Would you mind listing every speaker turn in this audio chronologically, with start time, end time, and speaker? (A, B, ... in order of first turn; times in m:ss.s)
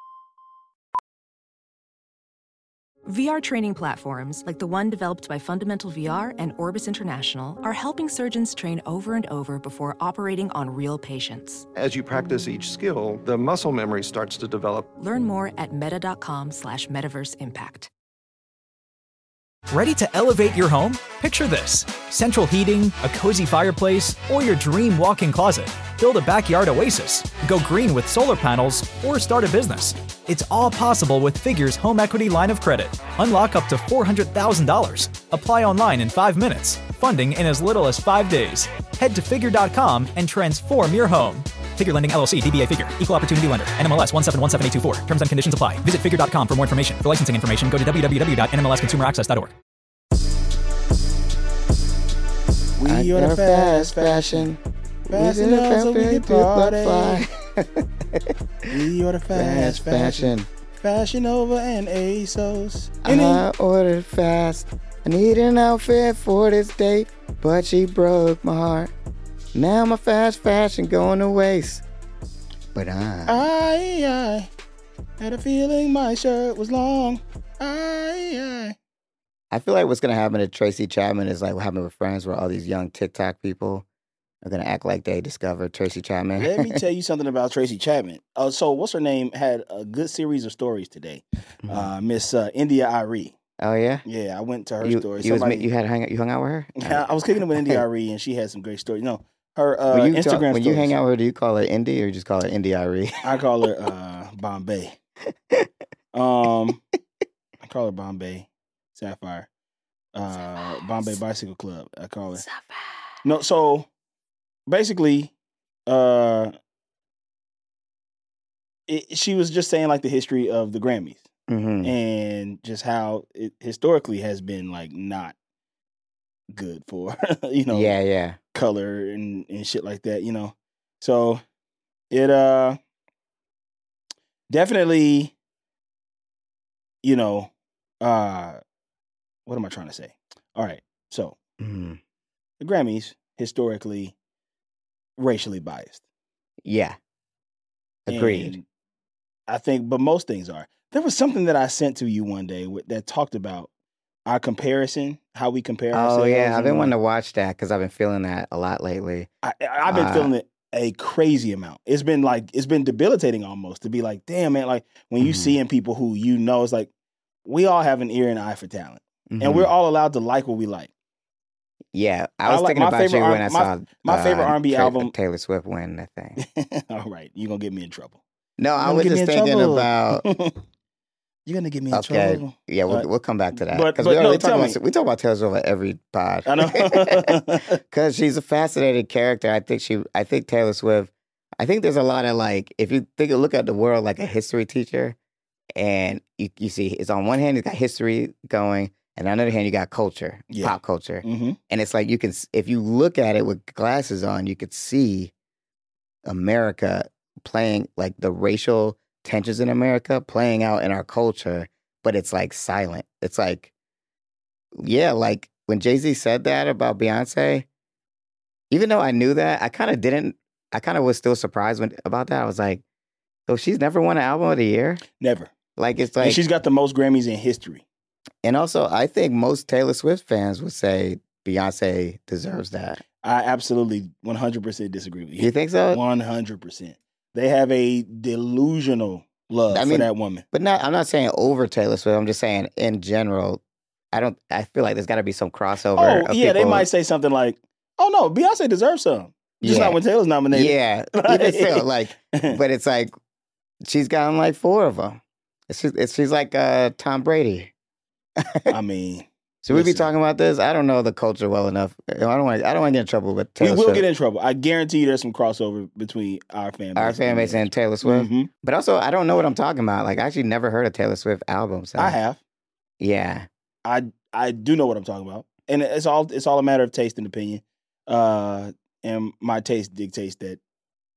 0:03.0-0:11.6 A
0:11.7-0:14.9 B
0:15.0-0:17.9 A
0:19.7-0:49.5 C
0:52.8-0:54.4 D
0:52.8-0:54.6 E
0:55.1-0:57.2 D
0:55.1-0:58.3 E
0:58.7-1:03.4 D
0:59.3-1:00.5 E
1:03.0-1:08.9 E
1:09.5-1:11.8 E
1:12.7-1:13.4 E
1:13.3-1:14.5 D
1:15.2-1:18.7 D
1:19.5-1:23.8 E
1:24.4-1:26.8 E
1:26.4-1:33.3 D
1:31.6-1:31.9 E
1:33.6-1:34.0 E
1:34.0-1:35.7 D
1:34.8-1:37.1 E
1:36.8-1:40.9 D
1:39.9-1:43.3 E
1:43.2-1:45.0 D
1:46.1-1:46.8 D
1:47.6-1:49.5 D
1:50.1-1:52.4 D
1:53.2-1:53.9 D
1:54.7-1:55.3 D
1:55.9-1:56.5 D
1:58.9-2:01.2 D
2:01.5-2:01.9 E
2:01.8-2:05.3 D
2:06.5-2:07.9 D
2:07.7-2:08.4 E
2:08.5-2:11.4 D
2:12.1-2:12.8 D
2:14.5-2:15.3 D
2:17.0-2:17.5 D
2:18.0-2:18.6 D
2:19.4-2:21.4 D
2:21.6-2:22.0 E
2:22.6-2:24.1 D
2:25.2-2:26.0 D
2:26.6-2:27.0 E
2:28.1-2:28.6 E
2:28.1-2:28.6 D
2:29.5-2:33.7 D
2:34.2-2:36.9 D
2:35.9-2:39.3 E
2:39.4-2:46.9 D
2:39.9-2:40.3 E
2:45.2-2:45.6 E
2:47.4-2:50.9 D
2:49.3-2:49.7 E
2:51.9-2:56.4 E
2:52.4-2:55.1 D
2:56.4-2:58.2 D
2:58.6-3:00.2 E
2:58.8-3:00.5 D
3:01.4-3:03.1 D
3:01.9-3:07.3 E
3:03.7-3:04.8 D
3:06.4-3:07.8 D
3:07.9-3:15.2 E
3:15.8-3:25.3 E
3:20.5-3:21.6 D
3:26.2-3:33.7 E
3:34.8-3:37.7 E
3:38.7-3:42.8 E
3:43.5-3:45.0 E
3:45.2-3:45.5 D
3:45.8-3:46.4 E
3:46.2-3:47.8 D
3:48.4-3:53.0 E
3:53.2-4:00.4 D
3:55.4-3:56.0 E
3:59.7-4:06.9 E
4:06.0-4:12.6 D
4:09.6-4:10.0 E
4:10.5-4:13.1 E
4:13.8-4:17.7 E
4:18.4-4:18.7 E
4:18.7-4:20.1 D
4:19.6-4:24.0 E
4:23.6-4:28.5 D
4:27.0-4:32.2 E
4:32.0-4:32.4 D
4:33.0-4:33.5 E
4:33.8-4:40.6 D